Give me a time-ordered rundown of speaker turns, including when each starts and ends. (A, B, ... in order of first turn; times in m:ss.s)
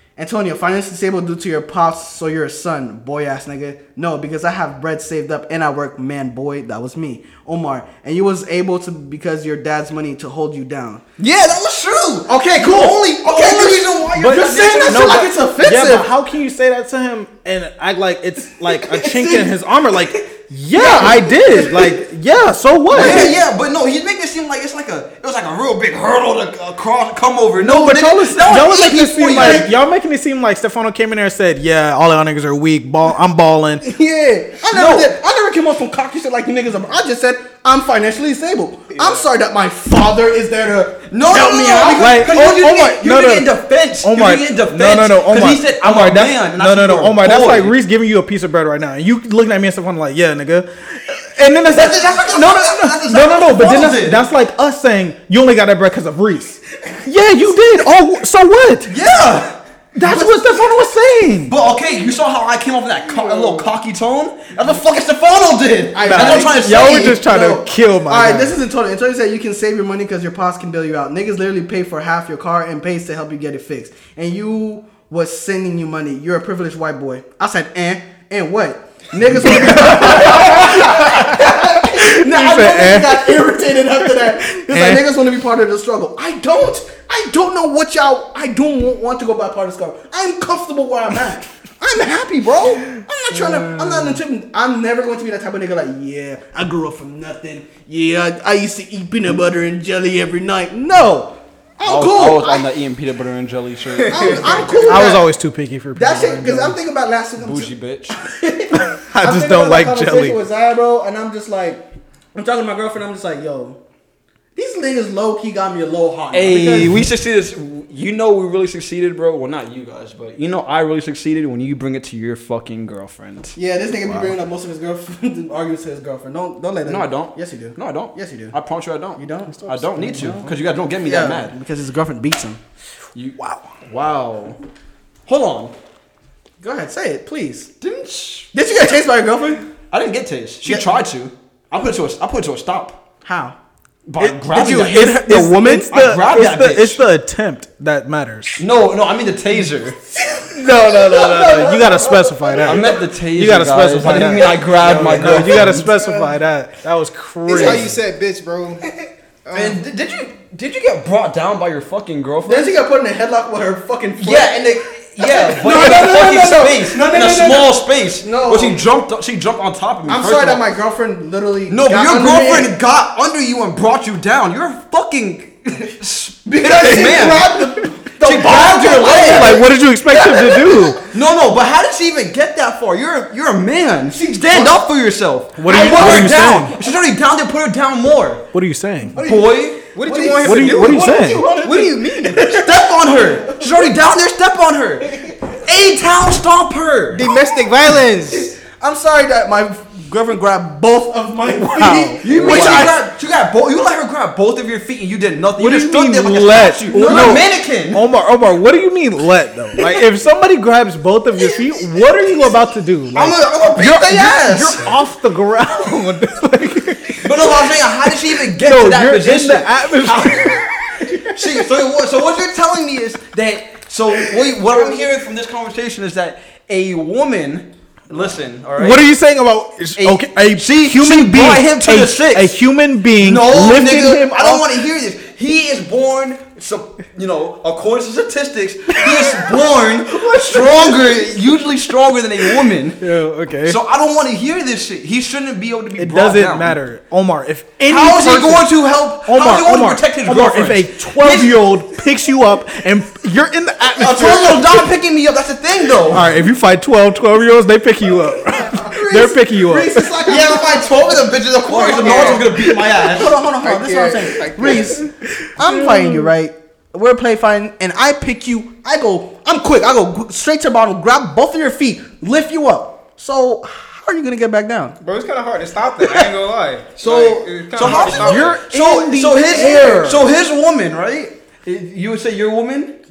0:00.2-0:11.0 A
0:11.2-0:15.3 B
0:12.3-0:16.1 A
0:14.2-0:23.3 C
0:18.7-0:19.5 A
0:20.7-0:22.0 A
0:22.9-0:23.4 A
0:22.9-0:29.7 B
0:27.6-0:33.9 C
0:29.3-0:29.6 A
0:33.8-0:42.3 A
0:34.7-0:35.1 B
0:41.1-0:47.8 B
0:41.9-0:58.9 C
0:51.7-0:54.2 B
0:58.9-0:59.5 B
0:59.9-1:01.6 C
1:00.1-1:00.4 A
1:01.5-1:07.2 B
1:05.9-1:42.6 A
1:06.1-1:08.6 C
1:19.4-1:23.5 C
1:24.7-1:25.0 C
1:33.6-1:34.0 C
1:41.8-1:45.1 B
1:44.1-1:45.3 A
1:44.8-1:46.8 C
1:46.0-1:53.8 A
1:47.4-1:48.2 B
1:48.8-1:50.4 C
1:54.5-1:57.1 A
1:56.3-2:03.5 B
2:03.5-2:08.5 A
2:04.0-2:04.3 C
2:06.8-2:11.5 B
2:09.2-2:10.5 A
2:09.9-2:10.5 C
2:11.0-2:12.6 A
2:13.1-2:14.6 B
2:13.4-2:13.7 C
2:15.2-2:15.7 B
2:16.6-2:17.7 A
2:17.8-2:18.5 B
2:18.5-2:19.6 A
2:19.9-2:23.0 B
2:20.6-2:20.9 A
2:23.2-2:23.6 A
2:24.0-2:25.1 B
2:24.2-2:28.6 C
2:24.5-2:26.0 A
2:25.9-2:27.0 B
2:28.6-2:30.0 B
2:30.1-2:32.9 A
2:30.5-2:38.0 C
2:32.6-2:35.9 B
2:34.6-2:36.2 A
2:37.5-2:38.9 D
2:37.5-2:37.8 A
2:39.4-2:39.8 D
2:39.5-2:42.7 B
2:42.4-2:48.8 A
2:44.2-2:50.7 B
2:50.1-2:52.7 A
2:51.7-2:57.5 B
2:56.4-3:01.0 A
2:58.2-2:59.6 B
2:59.0-3:01.0 C
3:01.1-3:08.5 B
3:04.1-3:04.8 A
3:05.6-3:06.8 C
3:05.7-3:06.4 A
3:08.5-3:09.2 C
3:09.1-3:13.7 A
3:09.2-3:09.8 B
3:09.9-3:12.6 D
3:10.4-3:11.5 C
3:12.3-3:17.3 B
3:17.1-3:18.5 D
3:17.5-3:23.0 A
3:21.6-3:22.8 C
3:22.2-3:22.9 D
3:22.2-3:28.0 B
3:25.6-3:41.6 C
3:26.9-3:27.4 A
3:33.1-3:34.8 B
3:33.7-3:34.8 A
3:37.2-3:49.0 B
3:48.8-3:54.8 C
3:50.0-3:52.6 B
3:53.2-4:03.1 B
3:59.0-4:01.4 C
4:02.6-4:03.8 C
4:03.6-4:06.8 B
4:06.0-4:08.7 C
4:07.8-4:11.7 B
4:09.2-4:14.9 C
4:14.0-4:16.3 B
4:16.0-4:20.2 C
4:18.6-4:35.0 A
4:20.2-4:23.4 B
4:21.8-4:22.4 D
4:23.6-4:25.0 D
4:25.6-4:26.3 C
4:35.0-4:38.6 D
4:37.0-4:43.0 B
4:37.8-4:40.2 C